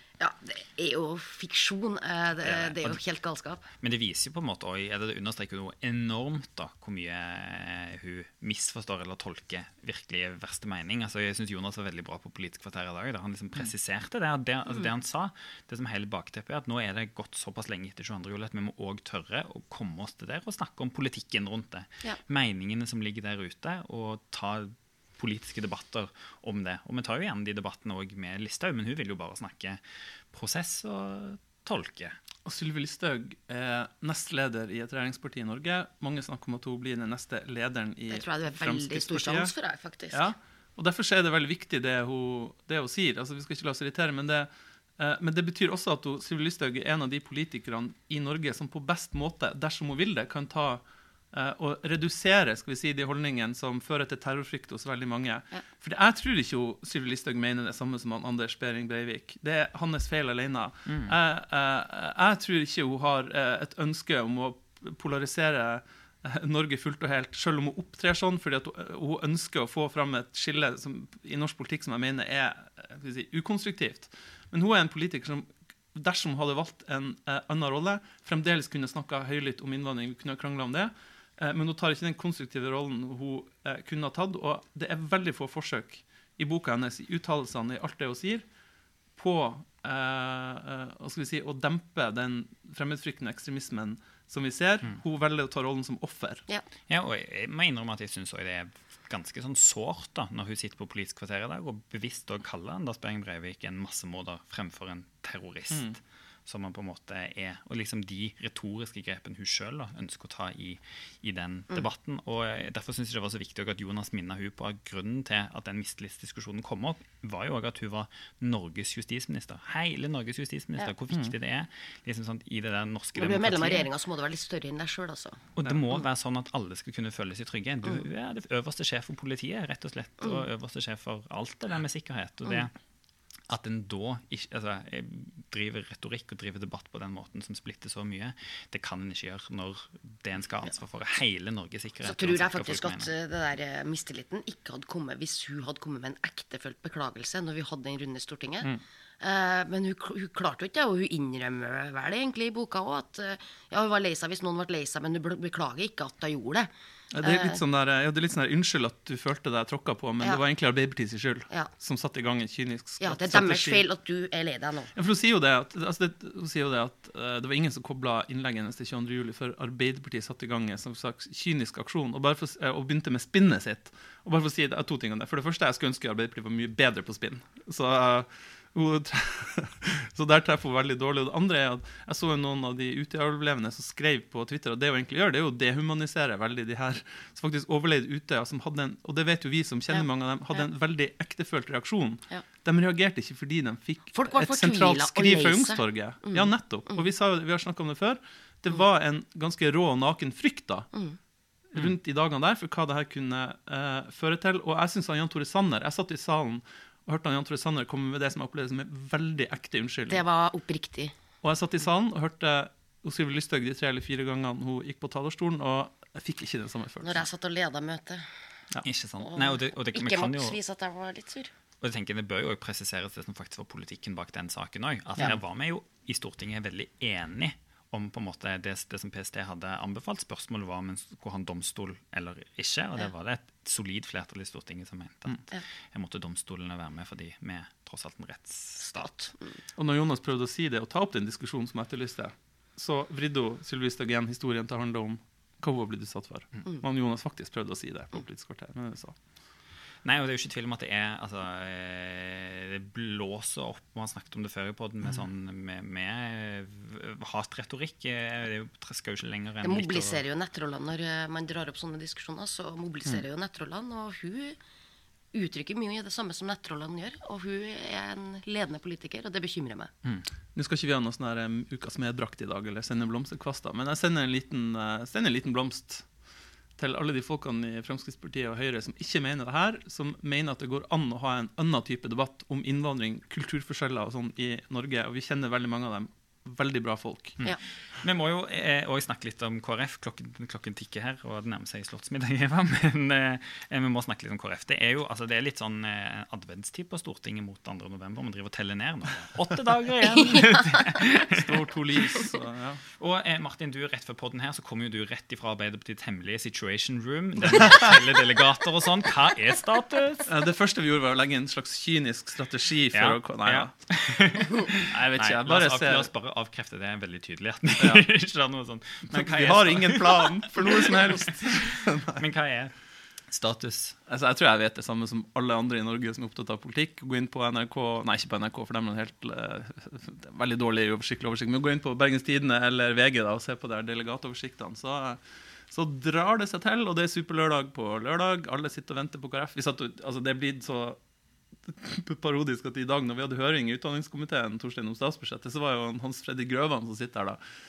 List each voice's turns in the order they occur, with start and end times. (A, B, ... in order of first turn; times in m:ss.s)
0:00.2-0:03.6 A
0:02.4-0:03.0 B
0:03.8-0:32.2 B
0:32.4-0:39.5 C
0:38.1-0:40.3 A
0:40.1-1:28.4 C
1:00.9-1:01.2 B
1:29.2-1:36.5 C
1:36.9-2:03.9 B
1:45.7-1:46.0 C
2:03.2-2:05.4 A
2:05.6-2:12.7 B
2:13.5-2:23.1 B
2:22.0-2:28.7 A
2:29.2-2:36.7 A
2:37.1-2:43.8 C
2:37.2-2:37.6 A
2:43.0-2:44.9 A
2:45.0-3:20.9 C
3:09.9-3:10.7 A
3:14.1-3:16.5 A
3:21.7-3:30.2 C
3:30.1-3:31.2 A
3:31.4-3:37.3 C
3:37.0-3:38.3 A
3:38.8-3:40.6 B
3:39.2-3:41.5 A
3:41.8-3:59.4 B
3:58.8-3:59.6 A
3:59.8-4:09.2 C
4:10.0-4:20.2 B
4:19.6-4:24.6 A
4:25.3-4:29.9 A
4:30.6-4:36.0 C
4:36.8-4:47.4 C
4:47.4-5:01.6 B
5:00.3-5:00.7 A
5:01.3-5:02.8 C
5:03.0-5:10.3 B
5:10.3-5:13.7 C
5:12.9-5:22.7 B
5:14.8-5:16.1 C
5:17.8-5:18.1 C
5:19.1-5:22.2 C
5:23.3-5:24.0 B
5:24.1-5:41.0 C
5:41.7-5:47.4 C